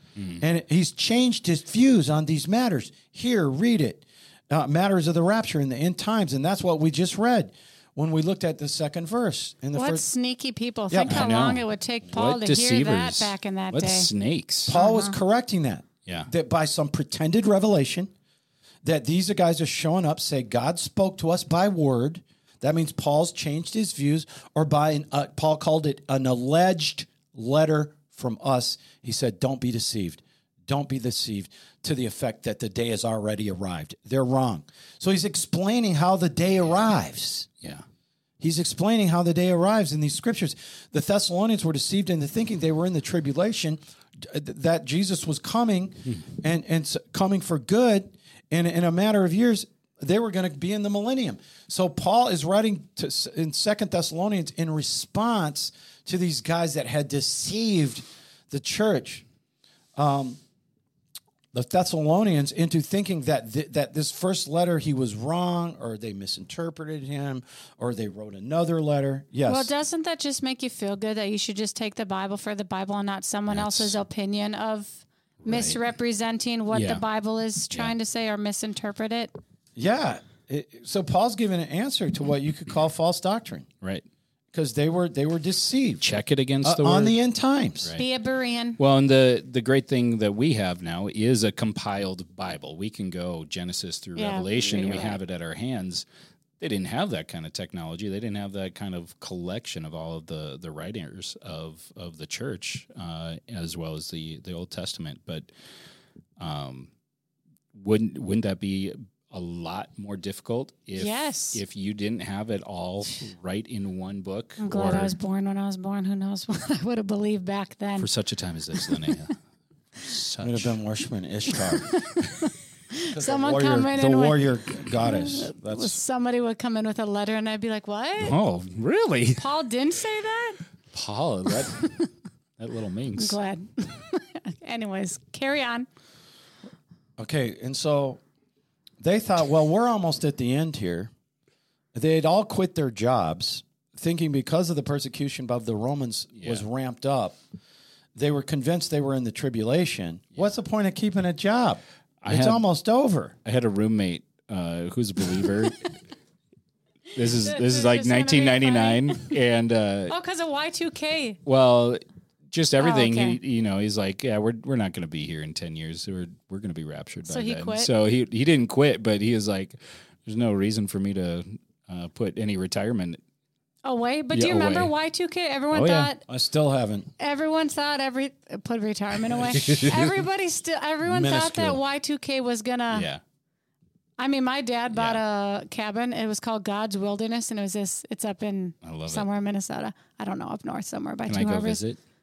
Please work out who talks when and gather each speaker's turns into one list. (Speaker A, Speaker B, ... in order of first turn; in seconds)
Speaker A: 0.4-10.1, 10.9-11.2, 14.7-18.1, 18.8-37.5, 38.4-59.3, 60.0-60.4, 61.5-69.7, 79.8-83.7, 84.5-86.1, 86.6-87.9, 120.4-122.0, 123.1-126.0, 137.2-138.2, 139.0-141.1, 141.9-147.4, 148.2-153.4, 176.3-177.1, 181.1-181.8
Speaker B: 9.8-14.1, 14.7-15.2, 69.5-79.3, 88.0-88.8, 94.2-95.2, 111.0-111.6, 114.6-118.1, 121.9-128.4, 129.4-130.6, 131.7-131.9, 133.2-135.9, 157.2-159.4, 160.1-161.4, 162.8-163.4, 167.3-167.9, 173.8-176.2, 177.2-183.1, 184.2-191.8
Speaker C: 11.1-14.7, 73.5-74.0, 75.4-75.8, 76.7-77.0, 86.0-87.2, 88.8-96.1, 96.6-105.5, 106.4-106.9, 107.7-115.2, 118.0-119.3, 120.0-120.8, 128.2-129.4, 130.9-131.9, 132.6-133.4, 146.4-146.7, 152.2-152.7, 153.4-156.0, 157.2-160.2, 161.4-173.2, 174.3-174.9, 175.7-176.1, 179.5-180.1, 182.9-183.2, 184.9-185.2, 188.8-189.3, 191.3-192.0